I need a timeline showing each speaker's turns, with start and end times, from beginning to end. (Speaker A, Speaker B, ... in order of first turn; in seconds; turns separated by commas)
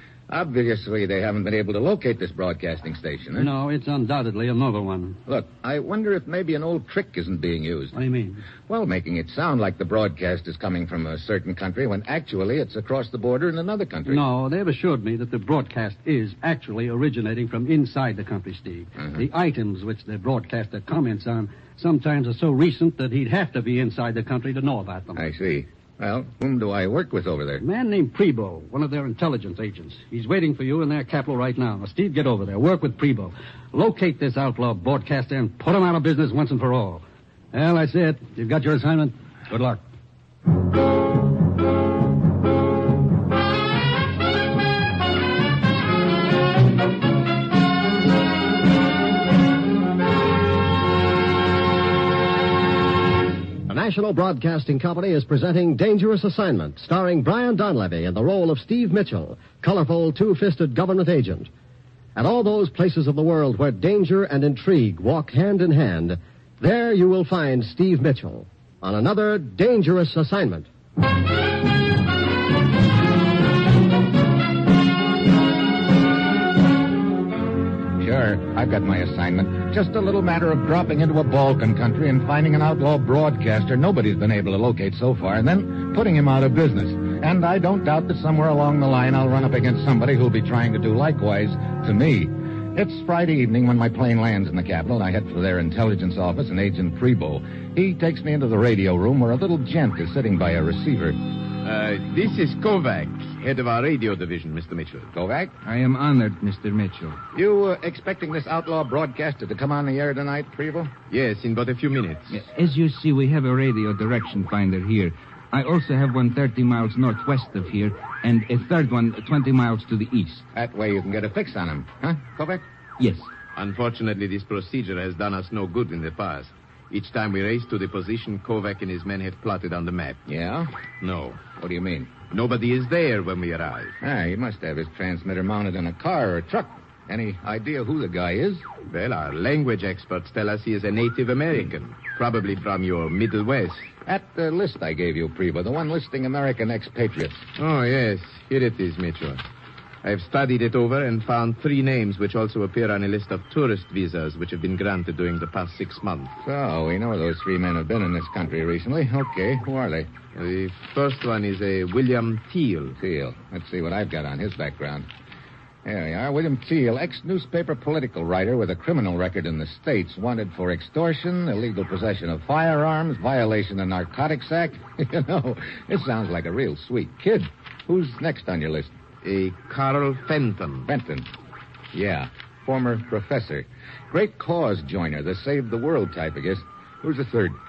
Speaker A: 0.3-3.5, Speaker B: 3.4-5.2, Speaker A: 5.3-8.0, Speaker B: 7.9-8.4, Speaker A: 8.7-14.2, Speaker B: 14.1-25.2, Speaker A: 25.2-27.6, Speaker B: 27.6-39.8, Speaker C: 53.7-61.5, Speaker C: 62.2-70.7, Speaker A: 78.0-101.2, Speaker D: 101.6-105.1, Speaker A: 105.1-105.6, Speaker E: 105.6-107.2, Speaker A: 107.3-110.9, Speaker D: 111.1-112.4, Speaker E: 112.3-120.5, Speaker A: 120.5-122.6, Speaker E: 123.0-123.3, Speaker D: 123.5-130.2, Speaker A: 130.3-130.7, Speaker D: 131.0-131.4, Speaker A: 131.5-132.1, Speaker D: 132.3-134.0, Speaker A: 134.0-138.6, Speaker D: 138.9-143.9, Speaker A: 144.1-147.4, Speaker D: 147.6-149.4, Speaker D: 150.0-156.3, Speaker A: 156.4-160.1, Speaker D: 160.3-162.9, Speaker A: 163.0-165.1, Speaker A: 165.8-178.9, Speaker D: 179.2-180.9, Speaker A: 180.9-181.3, Speaker A: 181.9-187.6